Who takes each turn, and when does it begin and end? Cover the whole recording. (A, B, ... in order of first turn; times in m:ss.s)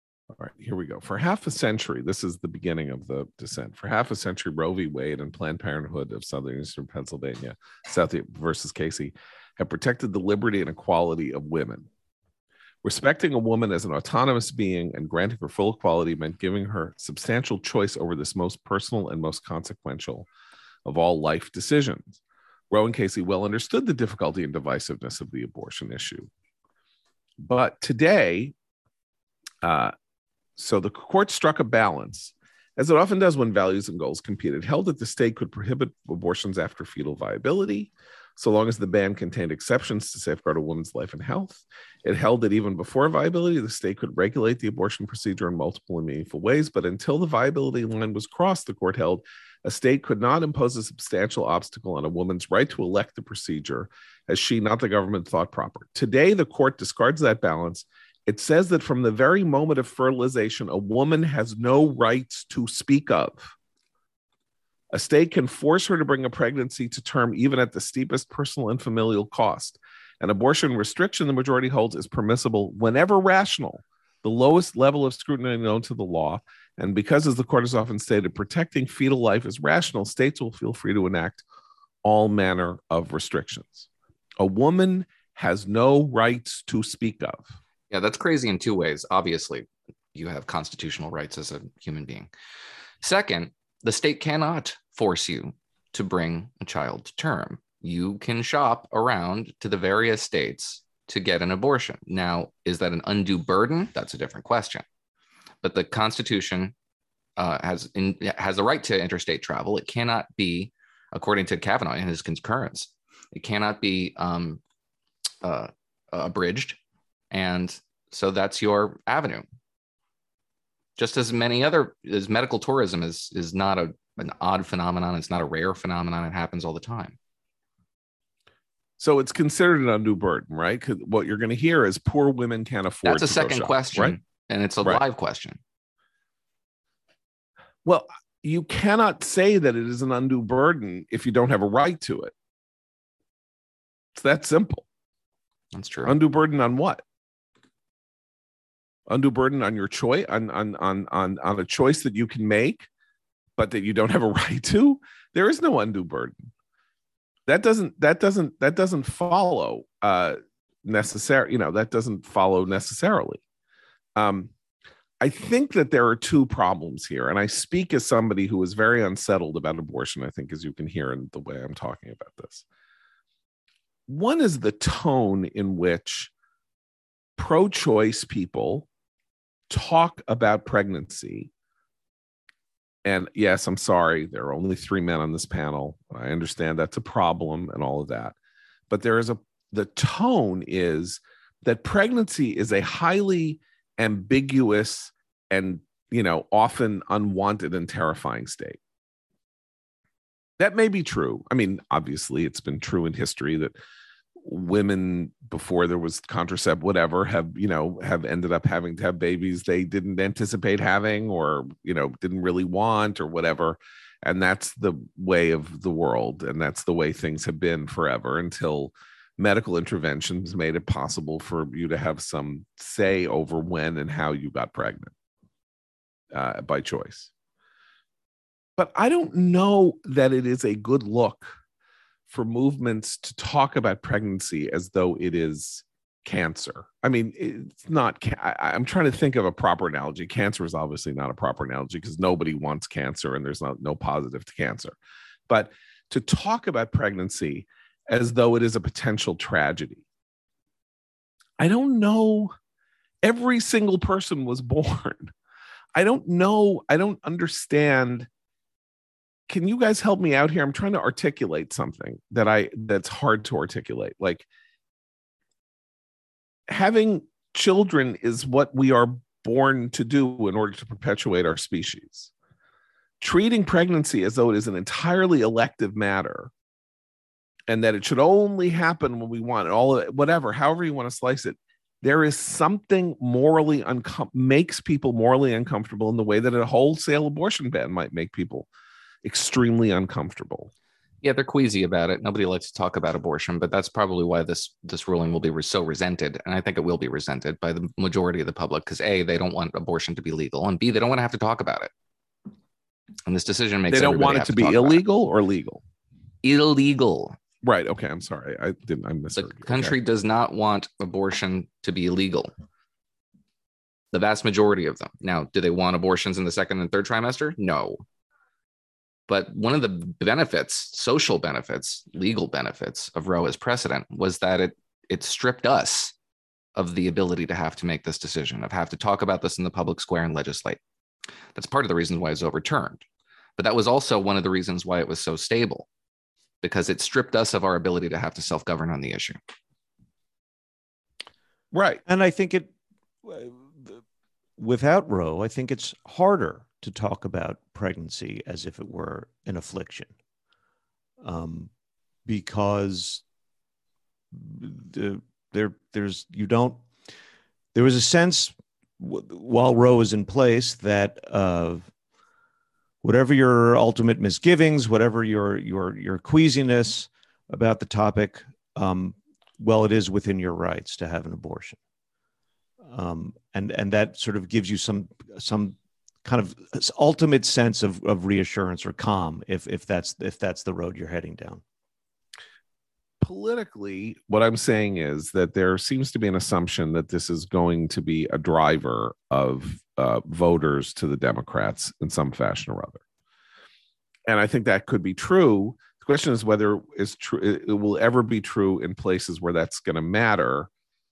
0:00.4-0:11.9 A
0:12.8-0:20.3 A
0:20.8-0:22.2 A
0:22.7-0:26.3 A
0:27.4-0:28.5 A
0:29.6-0:29.9 A
0:30.6-1:03.5 A
1:04.9-1:21.4 A
1:22.0-1:23.9 A
1:24.4-1:27.5 A
1:27.9-1:32.3 B
1:33.0-1:44.8 B
1:45.6-1:46.7 B
1:47.4-1:54.6 B
1:55.4-1:56.8 B
1:57.3-1:59.4 B
2:01.0-2:07.2 B
2:09.0-2:14.1 A
2:13.0-2:15.6 B
2:17.8-2:22.3 A
2:24.1-2:24.8 A
2:25.7-2:26.1 B
2:26.0-2:27.0 A
2:29.1-2:32.9 A
2:33.6-2:36.5 A
2:37.5-2:43.4 A
2:44.2-2:44.5 A
2:45.2-2:52.6 A
2:54.1-2:56.3 A
2:57.4-2:58.8 A
2:59.7-3:01.5 A
3:03.0-3:08.3 A
3:08.9-3:18.8 A
3:20.6-3:23.7 A
3:24.4-3:45.1 A
3:46.3-3:47.3 A
3:48.8-3:51.5 A
3:52.3-4:04.9 A
4:05.5-4:10.0 A
4:11.6-4:12.5 A
4:13.2-4:15.3 A
4:15.9-4:18.3 A
4:19.5-4:24.4 A
4:26.7-4:32.3 A
4:33.2-4:36.5 A
4:37.7-4:48.7 A
4:49.2-4:50.7 A
4:51.2-5:01.9 B
5:03.3-5:05.0 B
5:03.9-5:05.8 A
5:06.4-5:07.4 B
5:07.6-5:09.9 A
5:09.4-5:12.5 B
5:14.1-5:18.0 B
5:19.3-5:26.1 B
5:26.8-5:30.8 B
5:31.5-5:33.0 B
5:33.6-5:35.9 B
5:36.6-5:39.4 B
5:41.7-5:42.0 A
5:42.0-5:42.7 C
5:43.2-5:44.0 C
5:44.6-5:50.1 C
5:51.2-5:51.7 C
5:52.2-5:53.2 C
5:54.3-5:56.8 C
5:57.7-6:01.9 C
6:03.0-6:11.8 C
6:12.8-6:21.6 C
6:23.2-6:33.0 A
6:34.3-6:40.7 A